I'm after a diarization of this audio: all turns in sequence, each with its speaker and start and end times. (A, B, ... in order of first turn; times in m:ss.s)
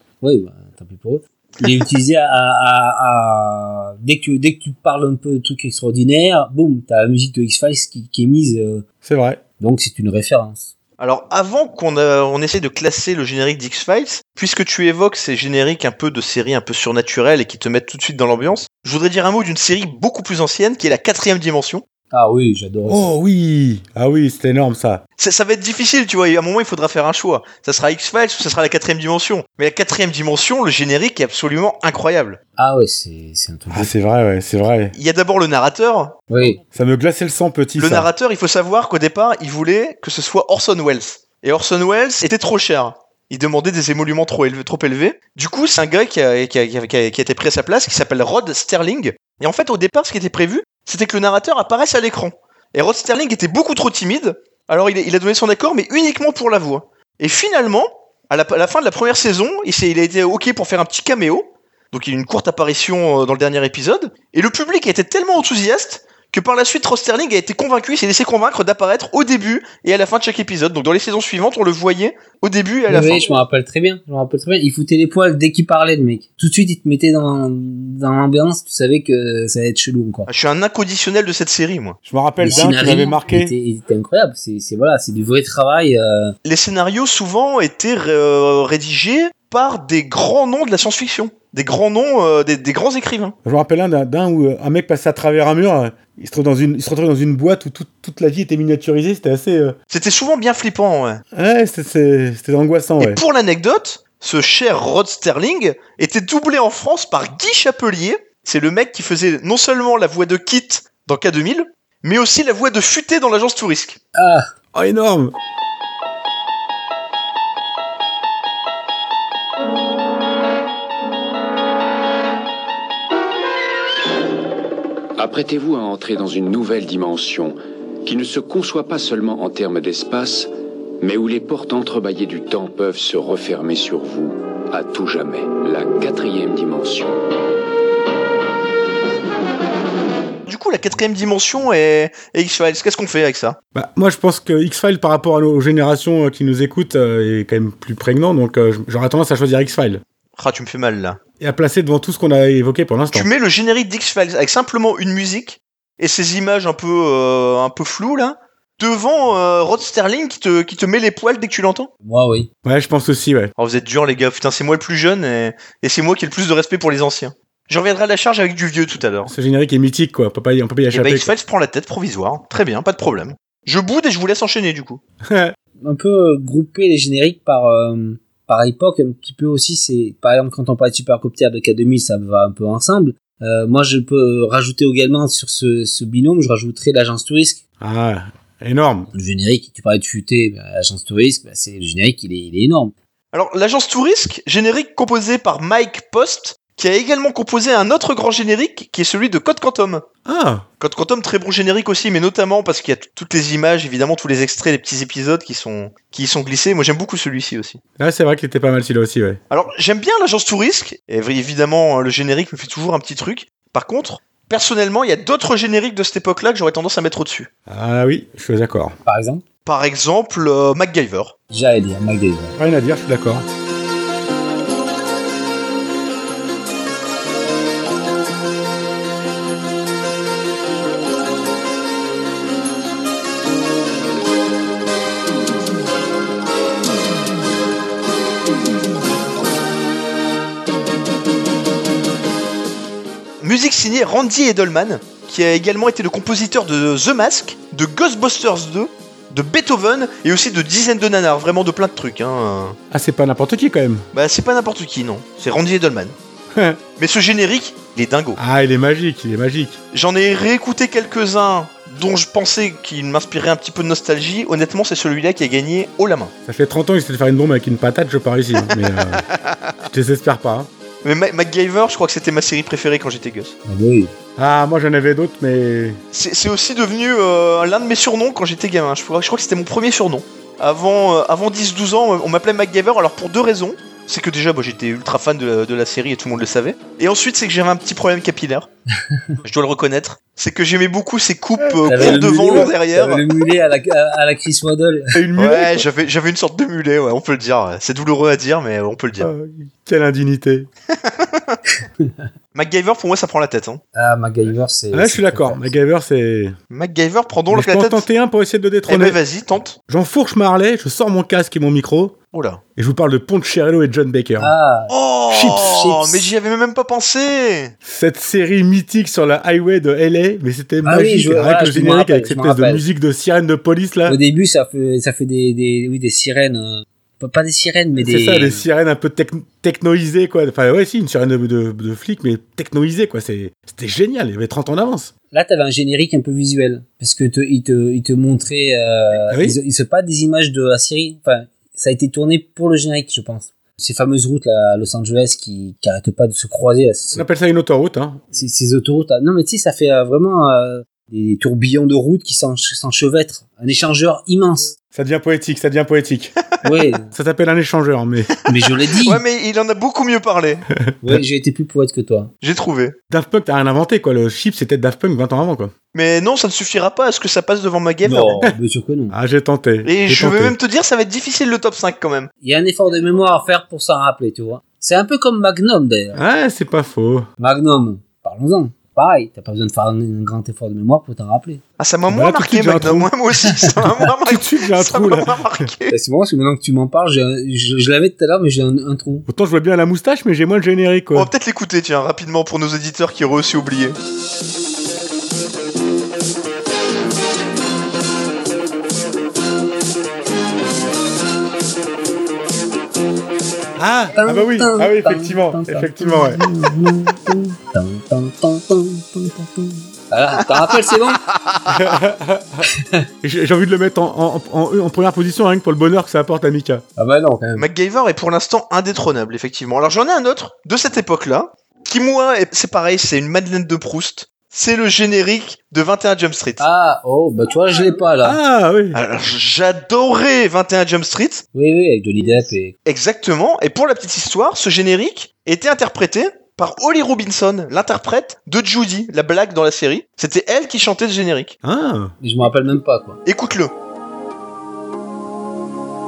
0:00.2-0:08.8 A
0:09.0-0:09.4 B
0:09.6-0:10.7 A
0:11.0-0:21.8 C
0:22.1-0:23.1 A
0:22.9-0:25.0 B
0:25.2-0:32.4 C
0:32.6-0:33.9 A
0:33.7-0:34.9 B
0:34.9-0:36.2 C
0:36.3-0:36.6 A
0:36.7-0:38.1 B
0:37.8-1:13.3 C
1:12.9-1:20.3 A
1:20.3-1:22.0 C
1:22.0-1:23.5 B
1:22.4-1:26.3 A
1:26.4-1:33.3 C
1:33.4-1:39.8 B
1:39.9-1:41.2 C
1:41.3-1:43.2 B
1:43.0-1:54.0 C
1:54.1-1:54.5 A
1:54.7-1:55.3 B
2:05.2-2:17.2 D
2:20.5-2:23.6 C
2:23.7-2:30.0 B
2:30.4-2:31.2 C
2:31.4-2:33.3 B
2:33.1-2:41.9 C
2:42.0-2:42.5 A
2:42.6-2:43.5 B
2:43.6-2:49.3 C
2:49.3-2:51.3 B
2:50.9-2:55.0 C
2:55.2-2:55.5 B
2:55.8-3:07.6 A
3:07.8-3:09.1 B
3:09.1-3:12.9 A
3:13.3-3:20.0 C
3:20.2-3:20.6 B
3:20.8-3:27.8 C
3:28.0-3:29.4 B
3:29.5-3:37.5 C
3:37.7-3:39.0 B
3:39.0-3:39.4 A
3:39.6-3:41.3 C
3:41.5-3:42.6 A
3:42.6-3:43.4 B
4:03.4-4:12.8 C
4:12.9-4:14.0 B
4:14.1-4:16.1 C
4:16.5-4:16.8 B
4:17.0-4:18.4 C
4:18.4-4:19.8 B
4:19.9-4:26.3 C
4:26.4-4:29.2 B
4:29.1-4:29.6 C
4:29.8-4:30.7 B
4:31.0-4:33.5 C
4:33.6-4:34.1 A
4:34.4-4:36.0 B
4:36.1-4:48.7 C
4:49.4-4:53.2 C
4:51.6-4:52.7 B
4:51.9-4:55.2 A
4:55.1-4:55.9 B
4:55.4-4:59.3 C
4:59.2-5:00.7 B
5:00.9-5:01.6 C
5:02.0-5:02.2 A
5:02.5-5:03.8 C
5:03.9-5:05.6 A
5:04.9-5:06.6 B
5:06.7-5:08.0 C
5:07.5-5:09.2 B
5:08.9-5:09.8 C
5:09.9-5:12.2 B
5:12.3-5:12.6 C
5:12.8-5:14.5 B
5:14.4-5:16.2 A
5:14.9-5:17.7 C
5:17.8-5:24.2 B
5:20.8-5:22.8 A
5:24.1-5:28.6 A
5:28.0-5:35.1 B
5:35.3-5:47.2 A
5:39.3-5:39.6 B
5:47.1-5:48.2 B
5:48.3-5:54.7 A
5:54.9-5:56.4 B
5:56.6-5:57.1 A
5:57.0-5:58.4 B
5:58.4-5:59.2 A
5:59.0-6:00.6 C
6:00.8-6:01.2 B
6:01.0-6:02.3 A
6:02.4-6:02.9 C
6:03.1-6:05.7 B
6:05.9-6:08.4 C
6:08.0-6:09.1 A
6:09.1-6:10.6 B
6:09.8-6:12.3 C
6:12.4-6:16.2 A
6:16.1-6:17.3 B
6:17.4-6:21.6 A
6:21.8-6:25.9 C
6:22.1-6:23.1 B
6:24.2-6:25.7 B
6:25.9-6:29.2 A
6:29.3-6:31.3 B
6:31.1-6:34.0 C
6:43.8-6:46.4 B
6:44.1-6:51.2 A
6:51.4-6:51.8 C
6:51.7-6:52.6 B
6:52.7-6:53.1 A
6:53.2-6:56.8 B
6:57.0-6:57.6 A
6:57.6-7:06.6 C
7:06.6-7:08.4 A
7:08.2-7:09.0 B
7:08.9-7:11.4 C
7:11.5-7:12.7 A
7:12.8-7:21.6 C
7:21.6-7:22.1 B
7:22.2-7:23.2 A
7:23.2-7:23.7 C